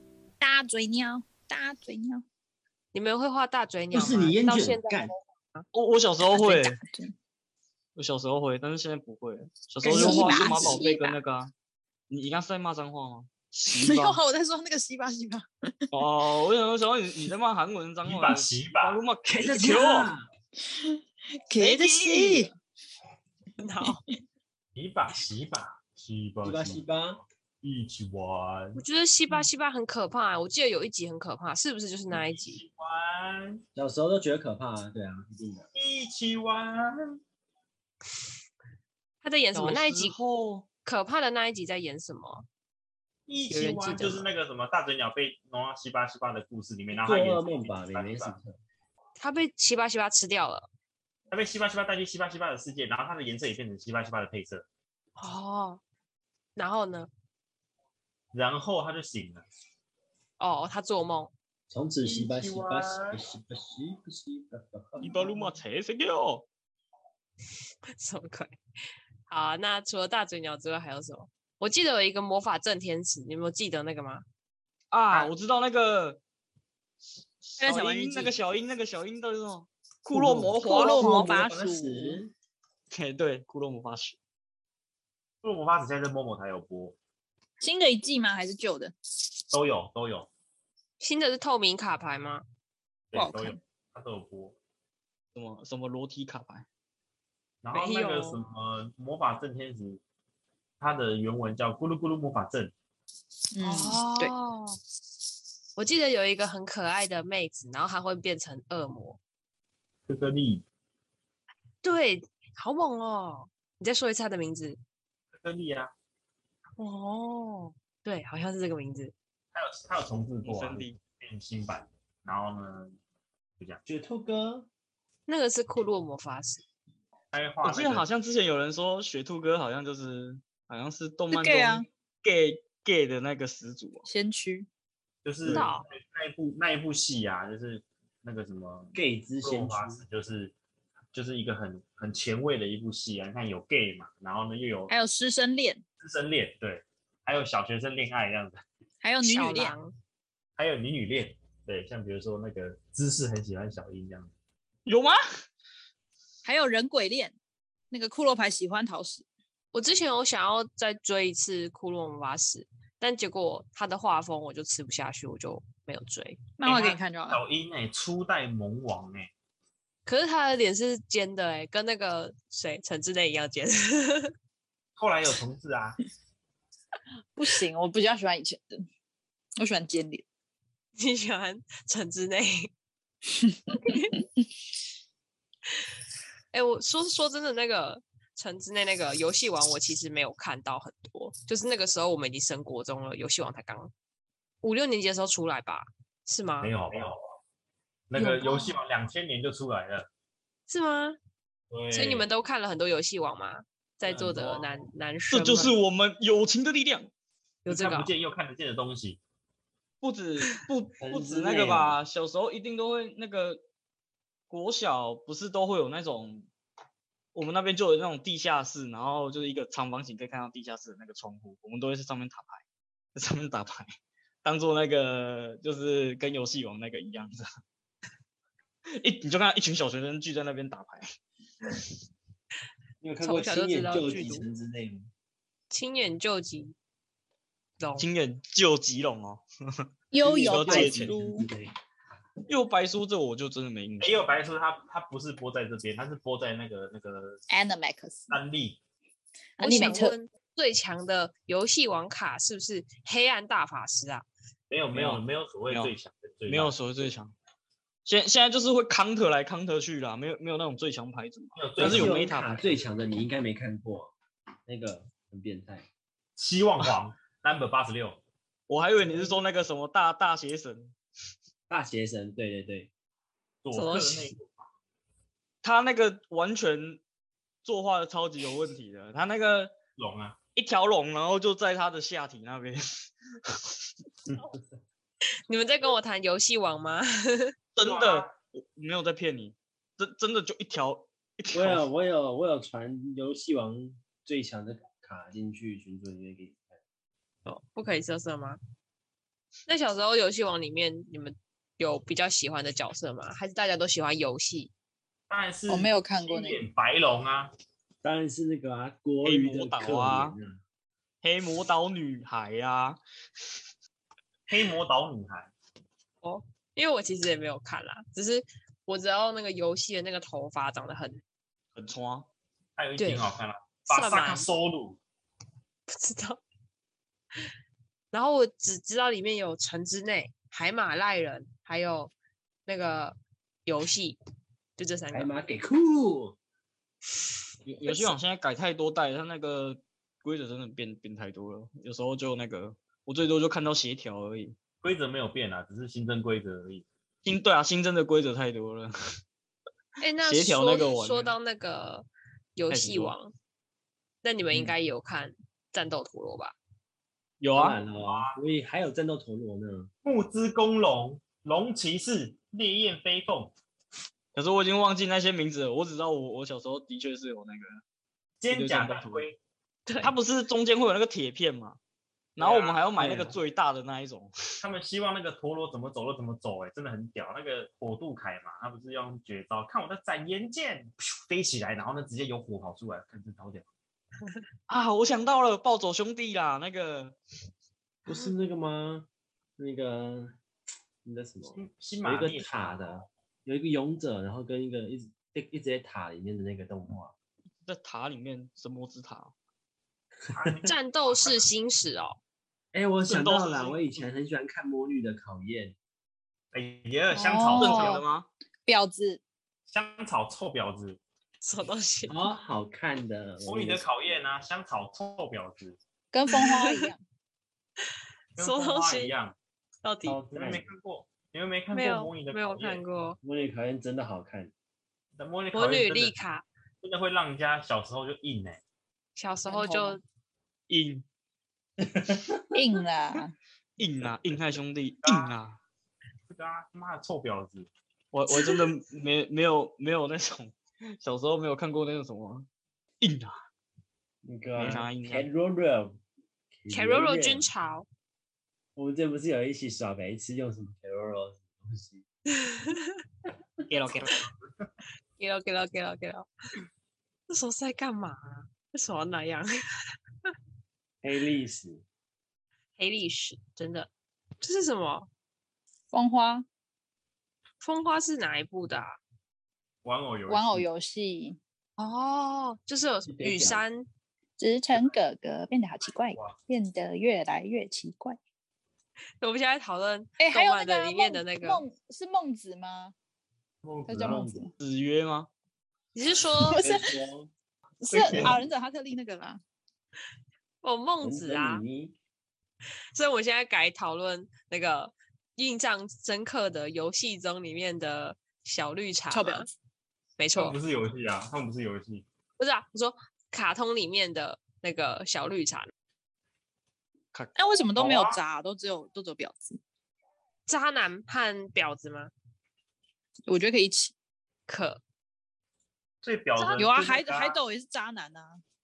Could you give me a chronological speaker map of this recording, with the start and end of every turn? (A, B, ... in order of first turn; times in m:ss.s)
0:00.4-0:02.2 A
0:02.9-0:05.7 B
0:03.9-0:05.1 C
0:05.7-0:06.8 D
0:06.2-0:07.1 A
0:08.0-0:11.5 D
0:09.8-0:11.2 A
0:09.8-0:10.8 C
0:12.1-0:14.2 D
0:13.7-0:15.9 A
0:15.9-0:20.1 D
0:18.0-0:19.0 E
0:19.3-0:20.3 C
0:19.6-0:20.1 A
0:20.6-0:22.5 A
0:21.6-0:22.5 D
0:23.6-0:24.0 B
0:24.8-0:26.9 E
0:26.4-0:27.2 C
0:27.6-0:28.8 E
0:28.8-0:32.6 B
0:32.1-0:33.6 E
0:33.7-0:35.7 C
0:35.8-0:37.2 E
0:39.2-0:40.2 B
0:39.6-0:40.7 D
0:40.8-0:42.4 B
0:43.3-0:48.4 E
0:43.5-0:44.3 B
0:46.9-0:48.6 C
0:49.2-0:50.7 B
0:51.3-0:54.7 E
0:55.2-0:55.8 B
0:56.6-0:57.1 B
0:58.3-0:59.4 E
1:00.4-1:01.3 B
1:01.7-1:05.5 C
1:02.0-1:03.2 E
1:05.0-1:06.5 D
1:08.0-1:08.6 B
1:09.3-1:14.2 B
1:14.9-1:16.2 D
1:17.4-1:21.2 D
1:17.6-1:18.3 A
1:20.1-1:22.3 C
1:20.6-1:22.2 A
1:20.6-1:21.0 B
1:22.9-1:24.2 D
1:25.4-1:27.0 E
1:27.6-1:28.9 A
1:29.5-1:30.3 E
1:31.0-1:32.4 B
1:33.1-1:34.6 E
1:33.1-1:33.6 A
1:35.4-1:36.7 D
1:37.6-1:40.0 E
1:37.7-1:38.4 B
1:40.8-1:42.7 E
1:43.5-1:44.3 A
1:43.6-1:44.8 B
1:45.8-1:49.2 B
1:50.1-1:50.6 E
1:51.8-1:54.8 B
1:55.4-1:55.9 E
1:56.8-1:59.1 B
1:59.5-2:03.0 E
2:00.4-2:01.0 D
2:03.8-2:04.7 C
2:05.3-2:06.6 B
2:07.3-2:08.1 E
2:07.6-2:14.1 D
2:11.3-2:11.9 A
2:14.0-2:14.7 A
2:15.2-2:20.5 E
2:15.5-2:15.9 B
2:19.0-2:20.0 C
2:21.1-2:24.9 E
2:24.9-2:25.8 A
2:26.0-2:28.6 E
2:29.0-2:29.8 A
2:29.2-2:29.9 B
2:30.6-2:34.3 E
2:34.9-2:35.2 D
2:36.4-2:37.3 A
2:37.9-2:39.2 A
2:39.7-2:46.5 B
2:46.6-2:47.4 A
2:46.6-2:49.3 E
2:50.1-2:54.3 B
2:55.0-2:56.0 E
2:57.4-2:58.8 A
2:59.6-3:00.2 A
3:01.0-3:02.7 B
3:03.7-3:04.2 B
3:06.5-3:13.9 B
3:14.6-3:16.7 B
3:16.6-3:17.2 E
3:18.1-3:20.1 E
3:18.2-3:18.7 A
3:20.7-3:21.2 B
3:21.7-3:22.3 E
3:21.9-3:25.7 B
3:24.0-3:24.8 E
3:25.3-3:27.1 D
3:27.6-3:28.1 B
3:27.7-3:29.2 E
3:30.0-3:33.6 D
3:31.0-3:32.0 C
3:34.5-3:36.5 D
3:37.3-3:42.6 D
3:43.2-3:43.9 D
3:44.4-3:47.4 D
3:49.0-3:51.1 D
3:53.0-3:55.1 C
3:53.2-3:54.5 B
3:55.7-3:56.8 B
3:57.8-3:58.1 B
3:58.0-4:01.1 D
4:00.1-4:01.5 A
4:00.2-4:01.7 C
4:02.5-4:04.2 D
4:04.0-4:07.4 E
4:07.5-4:08.4 A
4:08.3-4:08.8 E
4:09.6-4:10.2 A
4:09.6-4:14.2 B
4:14.7-4:16.8 E
4:14.9-4:15.9 D
4:16.5-4:17.3 D
4:18.0-4:22.8 D
4:21.6-4:22.3 E
4:21.8-4:24.1 C
4:24.7-4:25.8 C
4:26.4-4:28.2 E
4:28.7-4:30.9 D
4:31.7-4:32.9 C
4:33.6-4:34.7 E
4:33.7-4:34.3 B
4:35.6-4:37.0 D
4:37.6-4:39.7 D
4:40.0-4:40.4 E
4:40.6-4:42.8 D
4:43.4-4:43.8 D
4:45.5-4:47.5 B
4:47.8-4:51.8 D
4:47.8-4:48.3 E
4:51.5-4:56.8 C
4:57.5-4:58.6 B
4:59.7-5:04.7 B
5:05.3-5:07.5 E
5:05.7-5:06.6 A
5:08.0-5:10.6 C
5:09.2-5:10.4 D
5:11.2-5:13.0 D
5:14.5-5:15.5 E
5:16.2-5:21.2 B
5:21.8-5:22.3 D
5:22.8-5:25.0 E
5:23.0-5:23.3 B
5:23.9-5:24.5 B
5:25.9-5:26.4 B
5:28.1-5:32.1 B
5:32.7-5:34.2 B
5:34.8-5:35.3 B
5:35.1-5:36.4 C
5:37.7-5:44.6 D
5:37.8-5:38.2 B
5:44.8-5:46.8 E
5:47.2-5:48.9 D
5:50.0-5:53.3 B
5:50.2-5:51.3 D
5:52.7-5:53.1 D
5:54.2-5:56.6 B
5:57.4-5:57.8 D
5:57.6-5:59.9 C
5:58.0-5:58.4 E
6:00.0-6:03.5 E
6:04.3-6:07.8 D
6:08.4-6:09.4 E
6:08.5-6:09.2 D
6:10.0-6:11.8 D
6:12.4-6:13.4 E
6:12.4-6:14.3 D
6:14.6-6:23.7 E
6:24.7-6:27.2 D
6:28.0-6:30.4 C
6:31.0-6:37.1 C
6:31.6-6:32.9 E
6:37.7-6:39.3 D
6:40.3-6:41.4 E
6:40.7-6:42.2 B
6:42.7-6:45.8 C
6:43.1-6:43.9 D
6:46.5-6:48.0 E
6:47.1-6:48.0 A
6:47.6-6:48.3 D
6:48.7-6:49.2 A
6:49.7-6:51.0 E
6:51.4-6:52.2 B
6:52.1-6:53.9 C
6:53.4-6:55.8 E
6:56.1-6:57.0 A
6:56.4-6:56.9 B
6:58.4-6:59.4 E
6:58.4-6:59.1 B
6:59.8-7:00.2 B
7:00.1-7:00.7 C
7:00.3-7:02.8 E
7:01.7-7:03.2 B
7:03.2-7:04.5 C
7:05.2-7:06.2 E
7:05.5-7:06.5 B
7:06.8-7:08.6 E
7:09.2-7:10.0 B
7:09.5-7:10.0 A
7:10.7-7:11.0 D
7:12.5-7:13.3 A
7:13.8-7:15.6 D
7:15.0-7:15.4 E
7:16.3-7:17.7 E
7:18.1-7:22.5 D
7:23.0-7:23.4 D
7:24.2-7:26.0 C
7:24.6-7:25.3 D
7:26.6-7:27.5 C
7:26.7-7:27.9 B
7:28.8-7:32.0 C
7:32.4-7:33.0 B
7:33.7-7:34.2 D
7:35.2-7:36.3 B
7:37.3-7:39.5 B
7:41.0-7:41.8 C
7:42.8-7:43.9 B
7:44.4-7:45.1 B
7:45.9-7:46.5 A
7:47.6-7:49.0 B
7:49.8-7:50.7 E
7:50.3-7:51.4 A
7:51.8-7:53.9 B
7:53.1-7:53.6 C
7:54.4-7:58.2 A
7:59.2-8:01.6 B
8:00.2-8:02.9 A
8:03.6-8:04.4 E
8:03.9-8:04.5 A
8:04.0-8:04.5 C
8:04.6-8:05.3 D
8:06.0-8:06.6 B
8:06.4-8:07.0 A
8:06.6-8:07.3 C
8:07.8-8:09.4 A
8:07.9-8:08.4 E
8:08.1-8:08.4 C
8:10.6-8:11.6 B
8:11.0-8:12.0 C
8:12.9-8:19.5 B
8:19.1-8:19.5 A
8:20.2-8:20.6 B
8:20.4-8:22.0 E
8:22.4-8:25.7 B
8:27.4-8:29.6 A
8:27.8-8:28.2 E
8:30.5-8:32.1 B
8:33.3-8:33.9 A
8:34.5-8:34.8 B
8:36.0-8:37.4 E
8:36.4-8:36.7 B
8:36.6-8:38.4 A